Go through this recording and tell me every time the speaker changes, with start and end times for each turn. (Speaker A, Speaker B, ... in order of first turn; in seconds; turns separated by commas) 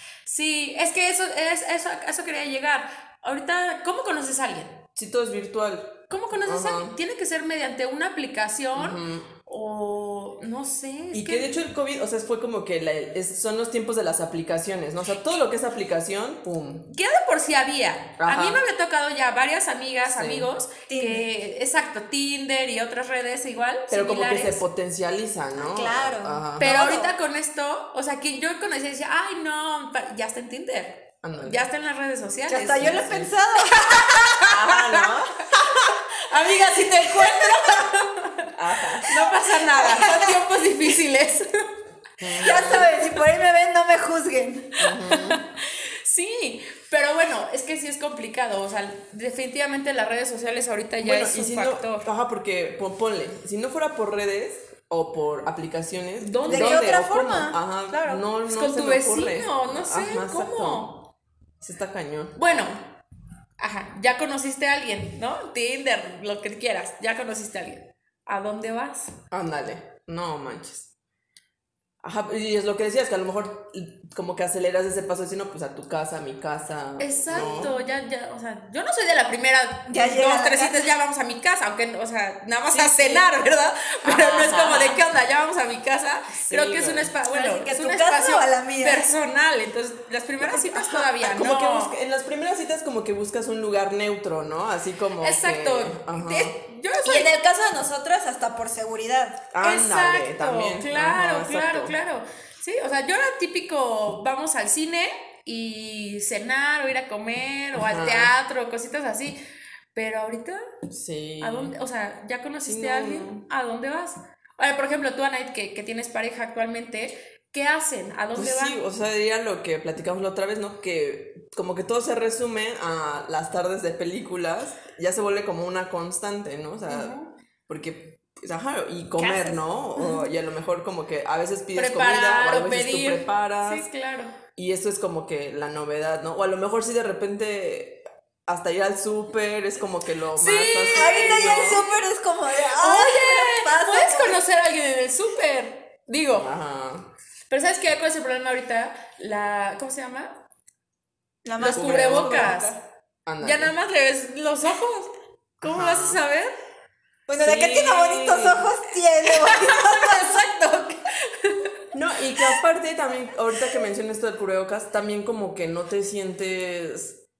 Speaker A: 0.2-4.8, Speaker B: 5.0-7.0, Speaker A: 6.1-11.6, Speaker B: 8.8-9.3, Speaker B: 11.1-16.9, Speaker A: 16.9-24.6, Speaker B: 18.2-18.6, Speaker B: 20.1-20.5, Speaker C: 20.9-21.3, Speaker B: 23.9-26.8, Speaker C: 25.6-27.1, Speaker A: 26.6-32.9, Speaker B: 31.2-31.6, Speaker C: 32.5-34.5, Speaker B: 32.8-33.3, Speaker A: 33.9-35.1, Speaker B: 34.5-35.6, Speaker A: 36.3-38.5, Speaker C: 36.9-37.9, Speaker B: 38.6-39.2, Speaker A: 39.0-41.6, Speaker C: 39.2-40.5, Speaker B: 42.2-42.9, Speaker C: 42.4-44.9, Speaker B: 44.8-45.4, Speaker A: 45.0-52.1, Speaker B: 51.0-60.9, Speaker A: 56.2-57.0, Speaker C: 56.5-58.3, Speaker A: 58.5-61.1, Speaker B: 61.6-62.7, Speaker A: 62.4-62.9, Speaker A: 63.6-69.1, Speaker B: 69.3-70.9, Speaker B: 72.0-77.8, Speaker A: 77.0-92.0, Speaker C: 77.3-77.7, Speaker C: 79.9-80.9, Speaker B: 82.7-83.3, Speaker B: 84.0-85.0, Speaker B: 86.4-87.1, Speaker C: 87.3-89.1, Speaker B: 90.4-96.5, Speaker A: 95.2-97.3, Speaker C: 97.0-99.5, Speaker B: 99.5-102.0, Speaker A: 99.6-109.4, Speaker B: 107.8-108.3, Speaker A: 109.9-110.6, Speaker B: 110.9-111.8, Speaker A: 111.4-118.8, Speaker B: 112.7-113.5, Speaker B: 118.3-127.1, Speaker A: 126.9-127.3, Speaker B: 127.7-133.9, Speaker A: 129.2-129.6, Speaker A: 131.8-134.3, Speaker B: 134.6-141.8, Speaker A: 140.3-142.0, Speaker C: 140.9-144.4, Speaker A: 142.8-146.5, Speaker B: 146.3-147.1, Speaker A: 147.5-150.4, Speaker C: 151.4-152.8, Speaker A: 151.6-152.7, Speaker B: 151.6-152.6, Speaker B: 153.3-153.7, Speaker A: 153.4-156.5, Speaker B: 155.6-156.2, Speaker C: 157.3-160.5, Speaker B: 157.4-158.7, Speaker A: 159.3-161.8, Speaker B: 161.9-167.2